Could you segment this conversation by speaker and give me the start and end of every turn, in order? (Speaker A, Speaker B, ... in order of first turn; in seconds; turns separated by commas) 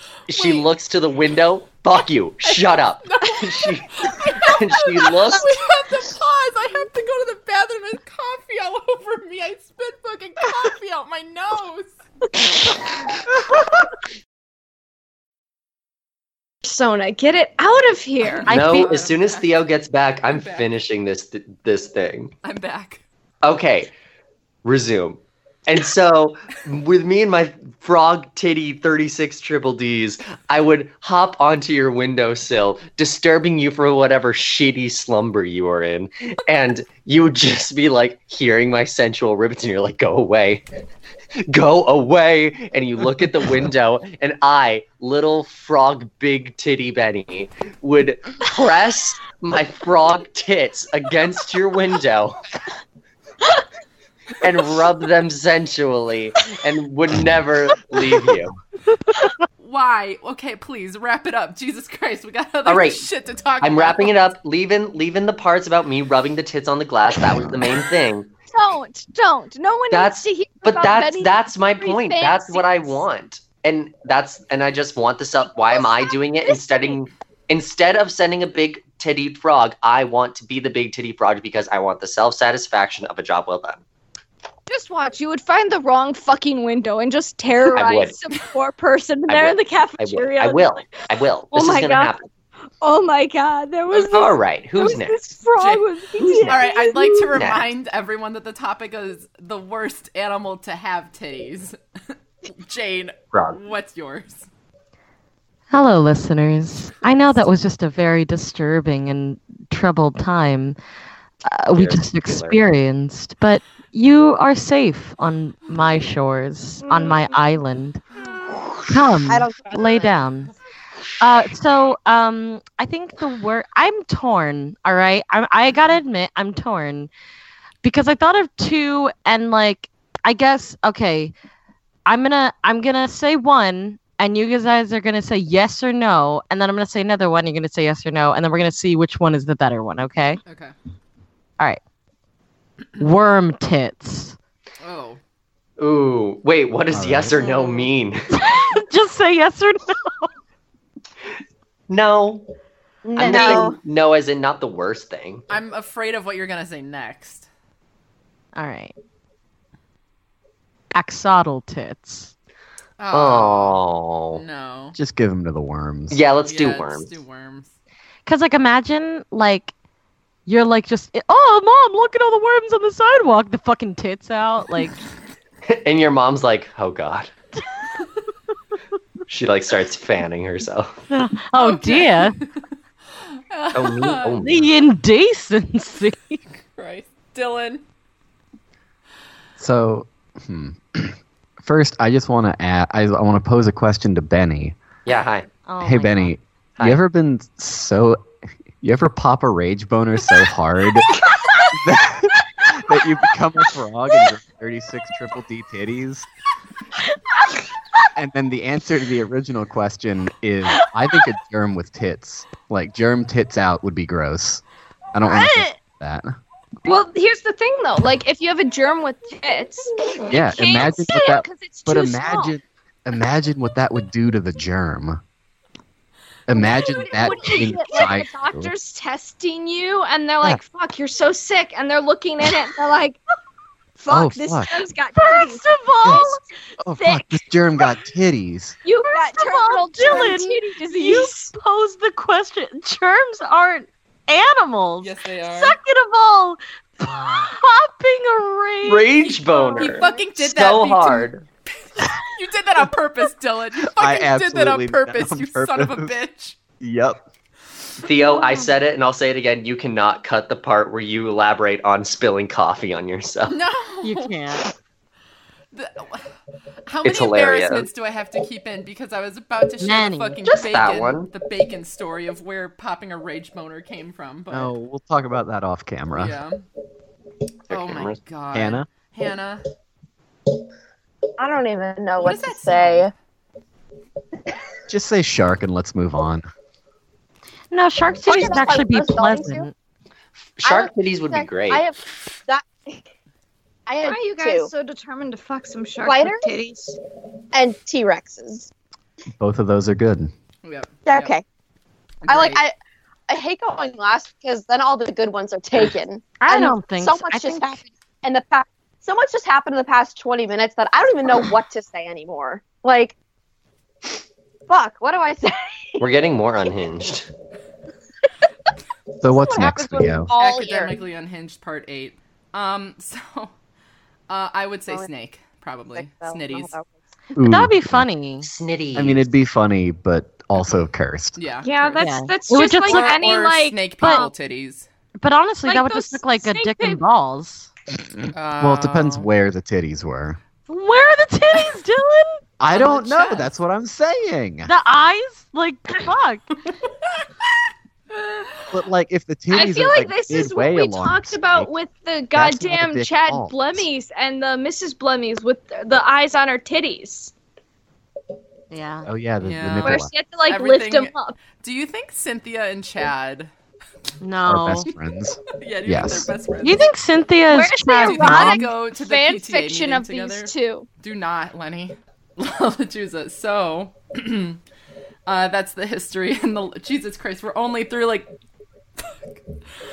Speaker A: 0.3-5.5, Speaker B: 0.3-0.7, Speaker B: 2.4-11.9, Speaker C: 16.6-18.5, Speaker B: 18.2-19.5, Speaker D: 18.5-19.0, Speaker A: 18.5-22.3, Speaker B: 20.3-20.7, Speaker B: 22.4-23.0, Speaker A: 23.4-23.9, Speaker A: 24.6-40.6, Speaker A: 41.5-52.4, Speaker A: 54.4-58.5, Speaker B: 59.6-64.3, Speaker A: 62.7-63.1, Speaker A: 63.6-68.3, Speaker C: 68.5-73.0, Speaker A: 69.9-83.8, Speaker C: 75.6-77.0, Speaker C: 84.7-92.1, Speaker A: 87.7-88.2, Speaker A: 89.3-92.3, Speaker C: 92.8-97.3, Speaker A: 93.9-95.2, Speaker B: 95.6-95.9, Speaker A: 96.2-96.6, Speaker B: 96.4-101.8, Speaker A: 97.3-97.7, Speaker B: 102.6-104.5, Speaker A: 103.3-103.6, Speaker D: 105.7-110.8, Speaker D: 111.5-118.0, Speaker A: 111.7-112.6, Speaker C: 116.9-117.2, Speaker D: 118.9-120.5, Speaker E: 119.3-120.1, Speaker D: 121.2-127.1, Speaker D: 127.8-131.3, Speaker D: 132.1-140.4, Speaker B: 140.5-140.7, Speaker D: 143.0-144.4, Speaker B: 144.8-145.2, Speaker A: 145.8-148.3, Speaker F: 146.9-147.4, Speaker D: 148.3-150.3, Speaker A: 151.9-152.5, Speaker E: 153.1-153.8, Speaker A: 153.2-155.4, Speaker D: 153.2-153.7, Speaker B: 155.5-157.5, Speaker D: 158.6-158.9, Speaker D: 160.9-162.3, Speaker B: 163.0-163.8, Speaker A: 163.1-164.4, Speaker B: 164.3-165.0, Speaker F: 164.9-166.2, Speaker A: 166.1-167.1, Speaker B: 166.4-167.7, Speaker D: 168.3-169.7, Speaker D: 170.5-175.0, Speaker A: 175.7-177.3, Speaker A: 179.3-180.9, Speaker D: 181.1-182.4, Speaker B: 181.6-182.6, Speaker B: 183.5-184.4, Speaker A: 183.7-184.7, Speaker D: 184.4-186.4, Speaker B: 186.8-187.8, Speaker F: 189.6-194.8, Speaker A: 195.1-195.5, Speaker D: 195.7-196.3, Speaker F: 195.8-198.2, Speaker F: 198.8-201.1, Speaker F: 201.7-206.3, Speaker F: 208.2-214.6, Speaker F: 215.1-216.3, Speaker C: 215.2-215.8, Speaker C: 216.8-222.6, Speaker F: 220.3-225.2, Speaker F: 226.5-228.7, Speaker C: 226.5-233.2, Speaker C: 234.0-236.4, Speaker F: 234.1-234.7, Speaker D: 235.2-236.4, Speaker F: 236.8-238.8, Speaker C: 237.0-237.4, Speaker C: 238.8-241.5, Speaker D: 239.1-249.3, Speaker B: 245.0-245.8, Speaker A: 248.8-251.4, Speaker C: 249.7-250.1, Speaker B: 249.8-256.6, Speaker F: 253.9-256.1, Speaker F: 256.8-257.2, Speaker A: 258.0-263.6, Speaker B: 263.5-264.4, Speaker D: 264.0-264.7, Speaker B: 265.7-266.3, Speaker B: 266.9-274.7, Speaker A: 267.0-267.9, Speaker D: 269.8-270.4, Speaker A: 270.4-271.3, Speaker F: 274.5-276.4, Speaker B: 276.1-276.6, Speaker A: 277.7-278.2, Speaker B: 277.7-279.6, Speaker F: 278.5-278.9, Speaker E: 281.4-283.1, Speaker B: 282.2-283.1, Speaker F: 284.9-286.5, Speaker D: 287.7-289.7, Speaker E: 288.2-289.7, Speaker A: 290.6-291.9, Speaker E: 290.6-293.0, Speaker E: 293.9-294.7, Speaker C: 294.0-297.0, Speaker E: 296.0-296.5, Speaker E: 297.5-298.7, Speaker F: 299.4-300.3, Speaker B: 300.6-301.3, Speaker E: 301.1-301.4, Speaker B: 302.2-302.6, Speaker E: 302.3-302.8, Speaker E: 303.3-313.1, Speaker D: 306.4-307.8, Speaker E: 314.7-316.0, Speaker A: 316.0-317.3, Speaker F: 319.2-320.3, Speaker E: 319.3-321.0, Speaker B: 320.4-323.5, Speaker B: 324.3-326.8, Speaker E: 325.9-326.9, Speaker F: 327.4-328.1, Speaker D: 327.4-328.5, Speaker A: 328.4-329.3, Speaker F: 328.9-331.4, Speaker B: 331.4-332.1, Speaker C: 331.6-334.3, Speaker D: 332.0-333.2, Speaker B: 332.9-334.9, Speaker D: 334.0-334.3, Speaker D: 335.2-337.7, Speaker C: 335.7-337.0, Speaker B: 338.3-339.3, Speaker F: 338.6-340.4, Speaker D: 340.7-342.4, Speaker F: 342.6-344.7, Speaker B: 342.7-343.5, Speaker D: 344.7-346.4, Speaker F: 348.7-351.7, Speaker C: 349.5-357.3, Speaker F: 352.3-353.9, Speaker D: 358.7-359.1, Speaker F: 359.1-360.1, Speaker B: 359.4-363.5, Speaker C: 359.8-361.4, Speaker D: 364.2-364.9, Speaker F: 364.5-366.3, Speaker B: 365.6-366.9, Speaker D: 366.6-368.7, Speaker C: 367.5-370.9, Speaker B: 368.0-374.6, Speaker B: 375.3-378.3, Speaker B: 379.0-379.4